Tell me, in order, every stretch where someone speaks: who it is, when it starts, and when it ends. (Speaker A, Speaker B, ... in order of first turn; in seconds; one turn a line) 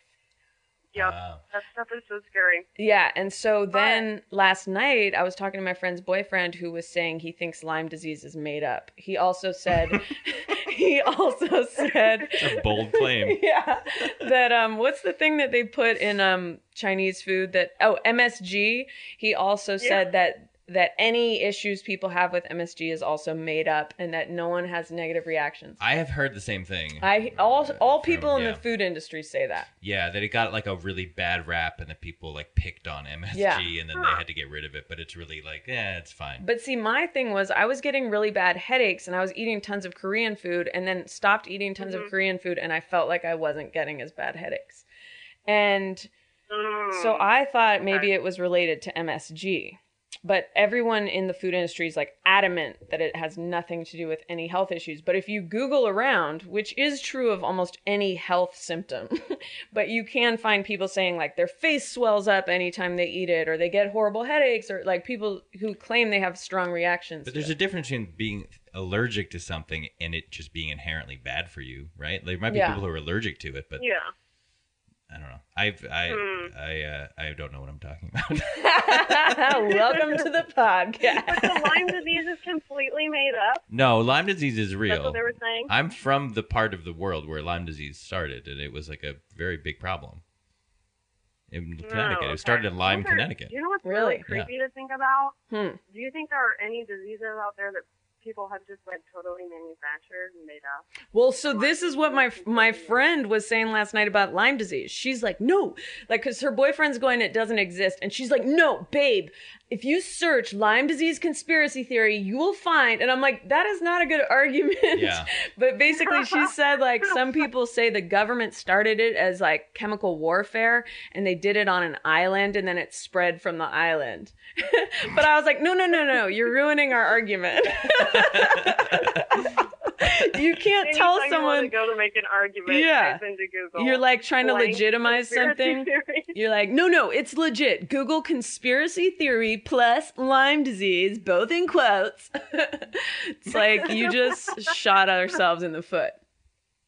Speaker A: 0.9-2.6
Speaker B: 0.9-1.4
Speaker C: 2.8-25.8
Speaker A: 3.7-4.1
Speaker B: 12.3-13.4
Speaker A: 19.8-20.0
Speaker B: 25.8-28.6
Speaker C: 27.0-29.7
Speaker B: 29.8-36.4
Speaker C: 33.3-33.7
Speaker A: 33.9-34.2
Speaker C: 36.4-44.8
Speaker A: 41.8-42.1
Speaker C: 45.5-46.1
Speaker A: 46.5-47.3
Speaker C: 46.9-67.5
Speaker B: 67.2-73.8
Speaker C: 72.5-72.8
Speaker A: 73.8-74.1
Speaker B: 75.1-79.2
Speaker A: 76.1-76.5
Speaker C: 78.5-82.0
Speaker A: 79.6-80.3
Speaker A: 81.1-83.6
Speaker B: 83.7-90.2
Speaker A: 84.9-85.7
Speaker B: 91.5-93.5
Speaker A: 91.8-95.3
Speaker C: 93.8-94.3
Speaker B: 94.3-94.5
Speaker C: 95.5-95.8
Speaker A: 95.9-103.0
Speaker C: 101.1-131.8
Speaker B: 114.9-115.3
Speaker A: 116.0-116.5
Speaker A: 130.8-136.3
Speaker C: 132.7-146.2
Speaker A: 143.5-144.7